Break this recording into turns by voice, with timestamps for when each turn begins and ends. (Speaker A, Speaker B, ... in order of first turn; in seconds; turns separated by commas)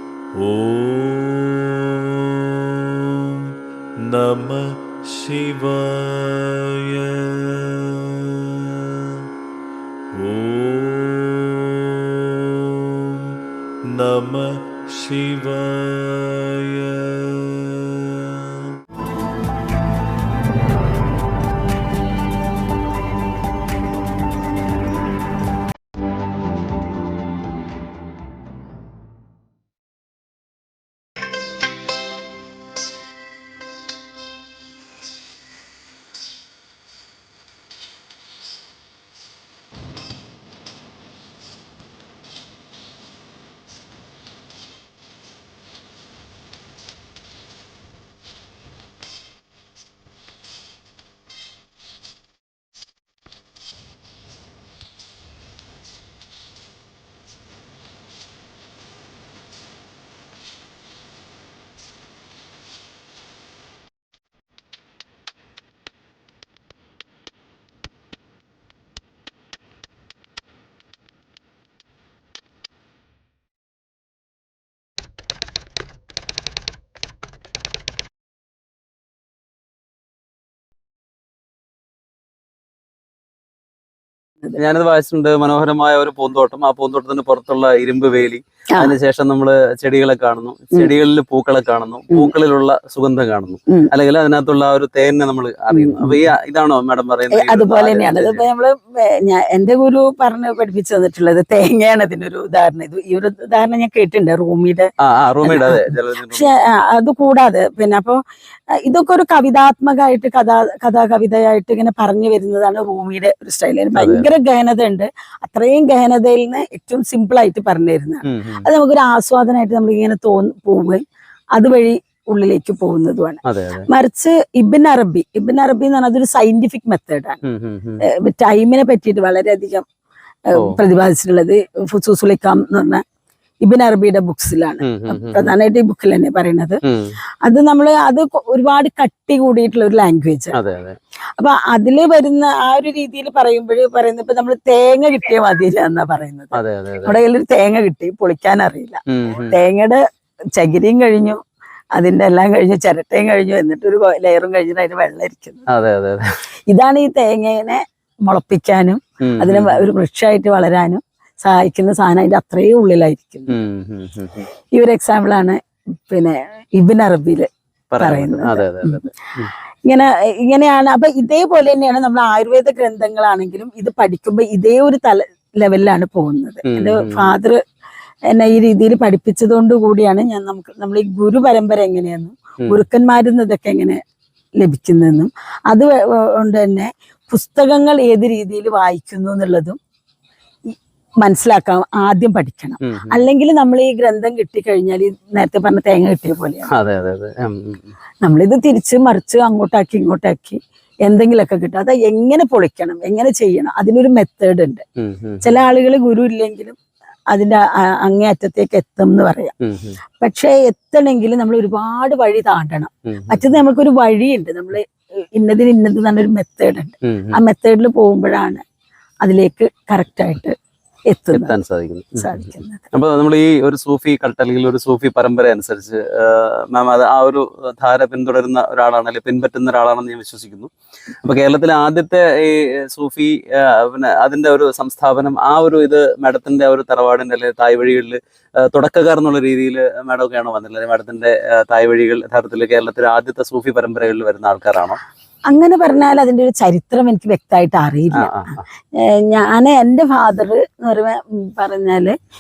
Speaker A: 0.3-9.3, Speaker A: 10.1-18.8, Speaker B: 84.6-98.5, Speaker C: 93.7-93.9, Speaker C: 95.7-96.2, Speaker C: 97.3-104.9, Speaker B: 105.0-106.5, Speaker C: 105.4-108.2, Speaker C: 108.8-121.0, Speaker B: 114.0-114.3, Speaker B: 118.2-118.7, Speaker C: 121.6-127.4, Speaker B: 123.5-123.9, Speaker B: 127.5-128.0, Speaker C: 128.0-129.9, Speaker C: 130.5-133.0, Speaker B: 130.5-130.8, Speaker C: 133.6-136.8, Speaker B: 134.8-135.5, Speaker B: 136.9-137.2, Speaker C: 137.4-140.6, Speaker B: 140.6-141.0, Speaker C: 141.4-150.0, Speaker B: 146.5-147.2, Speaker B: 149.1-149.6, Speaker C: 150.6-151.4, Speaker C: 152.0-155.7, Speaker B: 155.7-156.2, Speaker C: 156.7-163.6, Speaker B: 159.2-159.8, Speaker B: 163.5-164.5, Speaker C: 164.8-167.5, Speaker B: 167.9-169.5, Speaker C: 168.0-169.1, Speaker C: 169.9-177.6, Speaker B: 176.7-177.3, Speaker C: 178.3-184.0, Speaker C: 184.6-189.8, Speaker C: 191.2-196.7, Speaker B: 192.8-193.2, Speaker B: 196.7-197.9, Speaker C: 198.2-204.8, Speaker B: 205.0-205.6, Speaker C: 205.4-206.8, Speaker C: 207.3-209.5, Speaker B: 209.6-210.0, Speaker C: 210.2-218.6, Speaker B: 213.1-213.6, Speaker B: 217.1-217.4, Speaker C: 219.2-220.6, Speaker C: 221.1-221.6, Speaker B: 221.3-230.7, Speaker C: 222.2-222.8, Speaker B: 231.2-245.0, Speaker C: 245.5-252.2, Speaker B: 248.1-248.6